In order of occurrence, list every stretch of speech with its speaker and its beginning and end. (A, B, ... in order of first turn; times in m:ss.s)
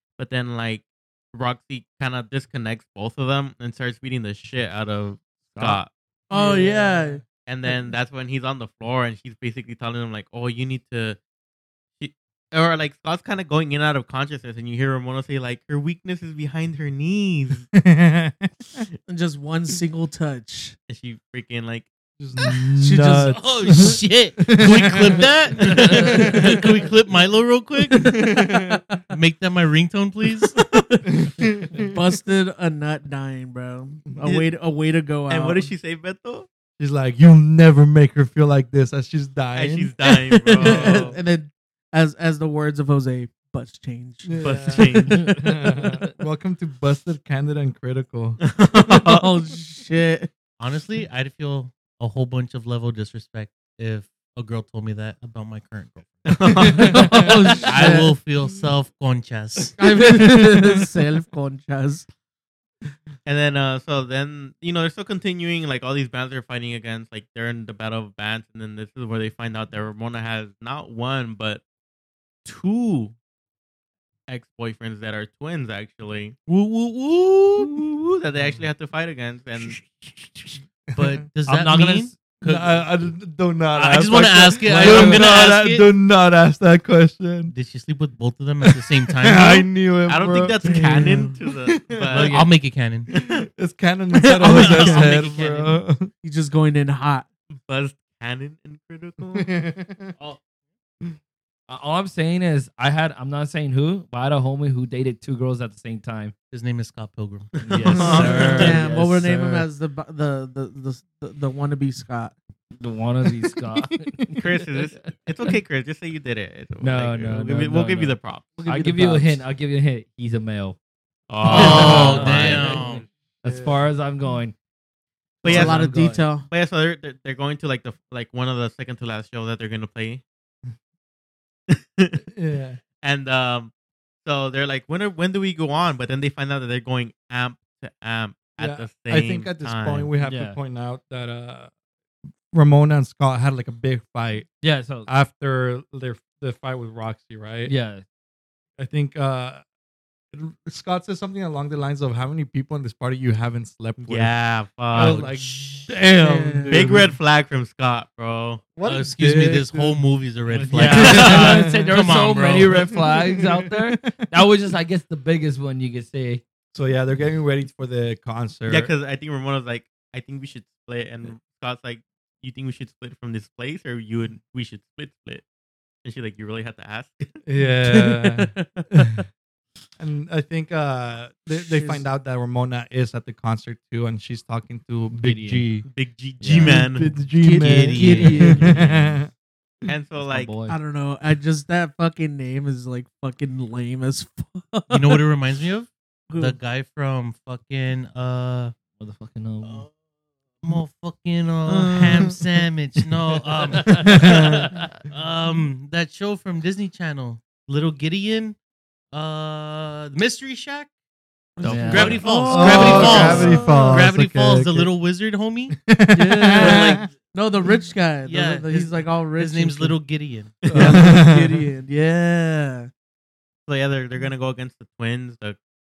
0:00.2-0:06.6 A
0:05.6-0:05.8 B
0:06.3-0:07.2 C
0:07.5-0:11.2 A
0:12.0-0:17.7 A
0:17.7-0:18.8 D
0:19.1-0:20.8 C
0:20.9-0:21.9 A
0:22.2-0:25.3 D
0:22.8-0:23.5 C
0:23.3-0:28.2 E
0:25.8-0:26.3 B
0:25.8-0:26.6 D
0:27.9-0:29.0 C
0:27.9-0:28.8 D
0:29.1-0:30.6 E
0:30.4-0:35.7 C
0:31.1-0:31.9 D
0:35.3-0:36.5 A
0:36.8-0:39.9 D
0:39.6-0:41.2 A
0:40.0-0:45.8 C
0:40.6-0:41.2 D
0:44.2-0:48.4 D
0:44.4-0:45.4 A
0:48.4-0:49.3 A
0:48.8-0:50.3 C
0:50.6-0:56.5 E
0:56.3-0:57.8 A
0:56.6-0:57.3 D
0:56.8-0:58.1 C
0:57.6-0:59.8 E
0:59.8-1:02.1 C
1:00.0-1:00.9 D
1:03.2-1:11.6 A
1:12.4-1:13.1 A
1:14.3-1:19.8 A
1:16.5-1:17.3 E
1:21.0-1:22.9 E
1:21.5-1:22.3 B
1:22.4-1:27.5 D
1:23.7-1:25.9 E
1:24.7-1:25.2 B
1:27.5-1:29.7 E
1:28.6-1:32.5 D
1:30.1-1:32.5 A
1:30.6-1:31.4 C
1:32.1-1:33.1 E
1:33.1-1:36.1 D
1:34.4-1:35.8 E
1:34.4-1:35.1 C
1:36.2-1:37.3 C
1:37.7-1:39.5 A
1:39.4-1:40.1 D
1:41.7-1:46.3 B
1:46.5-1:49.0 E
1:47.6-1:49.7 B
1:47.8-1:48.8 A
1:47.8-1:48.5 D
1:48.5-1:52.4 C
1:52.8-1:55.5 B
1:54.4-1:58.6 A
1:56.8-2:00.8 B
1:58.6-1:59.4 C
2:01.3-2:02.8 A
2:01.4-2:04.6 B
2:01.5-2:03.0 E
2:03.4-2:03.9 D
2:05.4-2:05.8 A
2:05.4-2:06.5 C
2:05.4-2:06.3 B
2:06.4-2:10.2 A
2:11.7-2:12.2 A
2:12.3-2:12.8 D
2:13.0-2:13.7 A
2:14.2-2:20.1 A
2:18.6-2:21.7 D
2:20.2-2:20.6 B
2:22.5-2:24.5 D
2:24.6-2:25.1 B
2:25.1-2:27.7 D
2:27.7-2:28.0 B
2:28.8-2:29.6 D
2:30.3-2:34.3 D
2:34.0-2:35.5 A
2:34.9-2:37.1 D
2:36.1-2:37.0 C
2:36.7-2:38.7 A
2:38.8-2:40.0 D
2:38.8-2:42.9 E
2:40.5-2:42.1 D
2:40.6-2:46.4 B
2:42.7-2:44.2 D
2:46.7-2:48.9 D
2:48.7-2:55.4 A
2:56.0-2:57.4 A
2:57.4-2:59.2 D
2:57.6-2:59.2 C
3:00.0-3:05.8 D
3:01.5-3:02.0 C
3:05.2-3:05.7 B
3:05.9-3:07.1 A
3:06.4-3:06.8 B
3:06.6-3:09.3 D
3:07.4-3:07.7 C
3:07.6-3:08.6 E
3:07.9-3:09.2 B
3:08.2-3:08.7 C
3:09.9-3:10.5 A
3:10.2-3:10.8 B
3:10.7-3:15.2 C
3:14.9-3:18.8 E
3:16.3-3:16.6 C
3:19.0-3:19.9 B
3:19.6-3:19.9 E
3:20.6-3:28.6 E
3:21.8-3:22.3 A
3:23.8-3:24.2 B
3:24.0-3:24.7 D
3:29.1-3:30.9 E
3:31.6-3:34.0 C
3:31.6-3:35.8 E
3:31.6-3:33.7 B
3:32.2-3:34.9 D
3:35.8-3:37.0 D
3:36.1-3:40.0 C
3:36.6-3:37.1 E
3:38.2-3:41.0 E
3:40.7-3:41.6 D
3:40.7-3:42.9 C
3:43.7-3:45.6 A